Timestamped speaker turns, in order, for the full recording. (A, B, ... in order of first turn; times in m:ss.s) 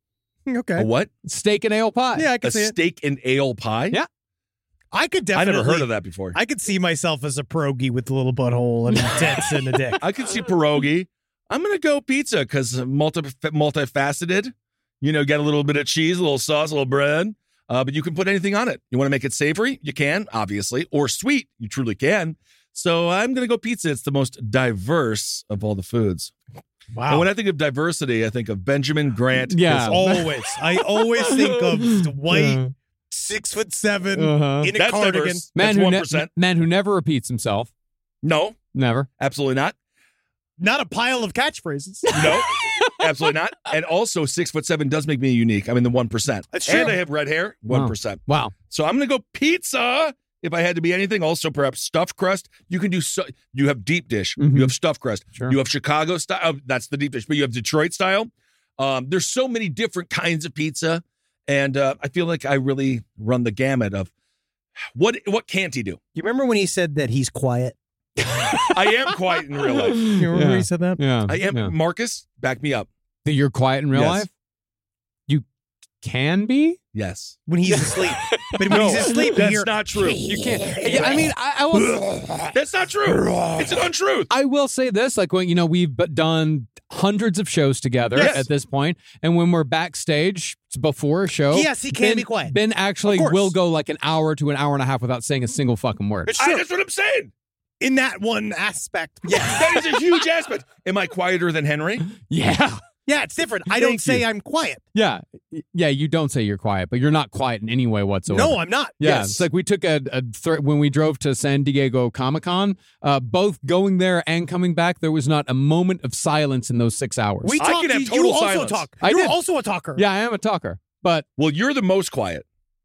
0:00.5-0:00.9 A
0:00.8-0:01.1 B
0:01.2-0:02.3 C
0:02.1-0:02.8 A
0:02.4-0:04.0 B
0:04.9-0:10.0 A
0:05.3-0:06.4 B
0:10.0-0:26.3 B
0:26.9-0:27.3 A
0:27.1-0:29.9 B
0:29.5-0:32.7 C
0:29.7-0:35.5 A
0:34.2-0:34.7 C
0:34.7-0:36.3 B
0:35.5-0:37.7 C
0:38.2-0:38.6 B
0:38.7-0:39.1 C
0:39.2-0:39.7 B
0:40.6-0:42.2 A
0:42.1-1:04.1 B
0:42.2-0:42.9 C
0:46.5-0:47.0 A
0:47.7-0:48.5 C
0:54.4-0:54.7 C
1:04.9-1:06.0 B
1:06.1-1:07.8 A
1:08.3-1:08.6 C
1:08.7-1:10.0 B
1:10.1-1:11.7 C
1:10.1-1:11.0 A
1:11.3-1:12.9 B
1:13.2-1:14.3 C
1:13.9-1:14.2 B
1:16.0-1:16.8 C
1:16.9-1:17.4 B
1:17.5-1:19.8 A
1:18.3-1:19.3 C
1:18.7-1:20.3 B
1:20.2-1:22.3 C
1:20.7-1:21.2 A
1:20.8-1:21.2 B
1:21.9-1:22.3 A
1:22.5-1:24.3 B
1:24.3-1:36.3 C
1:28.1-1:28.4 A
1:28.2-1:28.4 B
1:31.5-1:33.5 A
1:36.3-1:36.6 A
1:36.3-1:37.3 B
1:37.8-1:39.9 A
1:39.4-1:42.1 B
1:42.3-1:42.8 C
1:43.0-1:44.8 A
1:43.8-1:44.2 C
1:44.9-1:57.6 C
1:48.3-1:49.4 A
1:57.4-2:00.0 A
1:57.6-1:58.8 B
1:59.0-1:59.4 C
1:59.9-2:01.2 C
2:01.4-2:02.4 B